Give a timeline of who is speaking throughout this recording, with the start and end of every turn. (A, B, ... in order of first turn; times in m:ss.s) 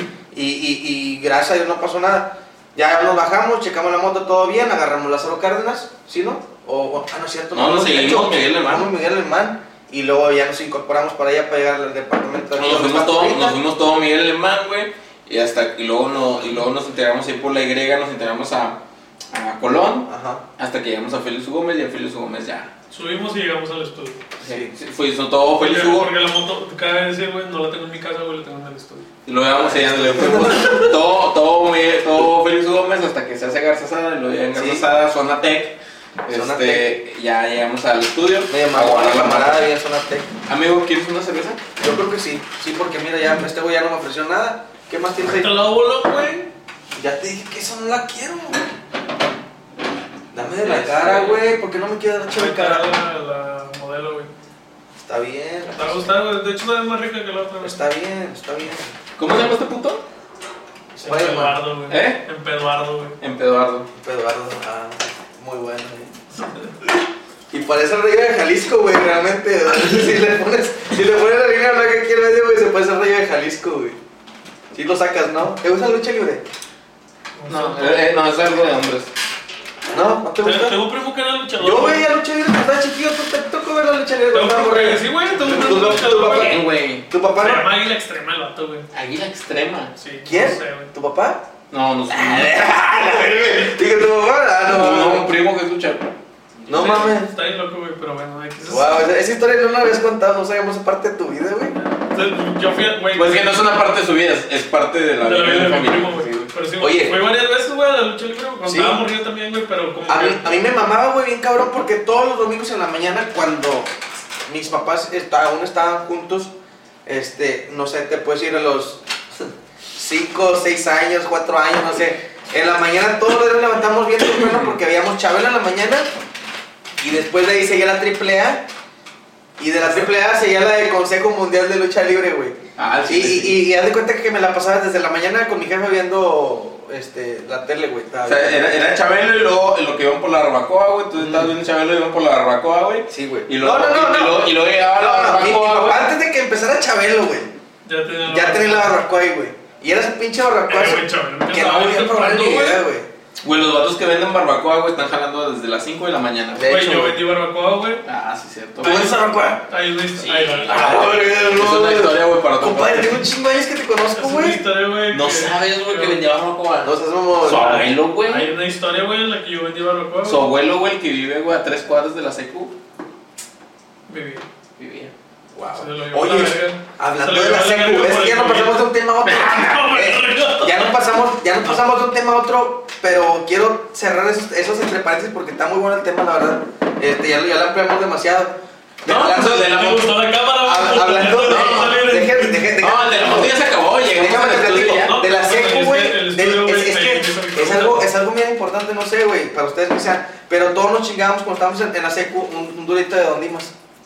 0:00.3-0:13.6 A
0:07.5-0:08.9 B
0:12.6-0:18.8 B
0:19.3-0:22.7 B
0:20.1-0:20.4 A
0:22.9-0:24.2 C
0:24.4-0:24.7 A
0:24.4-0:26.1 B
0:25.6-0:29.0 C
0:29.3-0:39.7 B
0:29.6-0:31.0 A
0:34.6-0:34.9 A
0:36.3-0:36.9 A
0:38.5-0:40.3 A
0:40.5-0:41.6 B
0:41.8-0:45.5 A
0:45.3-0:46.5 C
0:47.0-0:48.7 A
0:50.3-0:52.9 A
0:50.6-0:51.4 B
0:52.3-0:54.3 C
0:55.0-0:56.1 A
0:55.7-0:57.8 C
0:57.6-0:59.0 A
0:59.2-1:00.0 B
1:01.0-1:01.6 A
1:01.0-1:03.2 C
1:01.9-1:02.2 B
1:03.2-1:03.9 B
1:03.9-1:06.1 A
1:06.4-1:06.8 C
1:07.5-1:14.0 A
1:14.7-1:16.4 A
1:17.4-1:18.1 C
1:17.5-1:19.1 B
1:19.9-1:20.8 A
1:20.4-1:22.1 C
1:21.6-1:27.7 A
1:24.3-1:26.6 C
1:25.9-1:27.1 B
1:27.4-1:28.9 C
1:28.9-1:29.9 B
1:30.0-1:30.9 C
1:30.2-1:31.4 A
1:31.7-1:32.6 B
1:32.1-1:35.3 A
1:34.6-1:36.1 B
1:36.7-1:37.3 A
1:36.7-1:39.0 C
1:38.7-1:41.8 A
1:42.1-1:43.6 C
1:43.1-1:46.5 B
1:45.2-1:50.4 C
1:46.8-1:47.2 A
1:48.6-1:49.0 A
1:50.1-1:53.9 A
1:54.5-1:56.5 A
1:57.1-2:06.1 A
2:04.4-2:04.8 B
2:07.0-2:08.6 A
2:09.6-2:18.9 A
2:12.8-2:13.6 B
2:18.3-2:26.1 B
2:21.2-2:21.5 A
2:23.1-2:27.5 A
2:27.9-2:28.9 C
2:28.3-2:33.1 A
2:30.7-2:32.8 C
2:33.4-2:36.7 B
2:36.6-2:37.2 A
2:36.7-2:38.0 C
2:38.0-2:39.1 B
2:38.8-2:39.6 A
2:38.8-2:41.1 C
2:40.2-2:43.3 B
2:40.7-2:44.6 A
2:44.1-2:46.2 C
2:45.1-2:48.5 B
2:46.8-2:47.8 A
2:47.5-2:50.5 C
2:50.2-2:52.7 B
2:54.1-2:54.4 C
2:54.8-2:55.1 B
2:55.5-3:09.7 A
2:55.7-3:01.0 C
3:09.0-3:10.1 B
3:09.4-3:12.7 C
3:10.6-3:13.6 A
3:11.5-3:12.0 B
3:12.8-3:15.2 B
3:14.1-3:23.7 A
3:14.9-3:18.1 C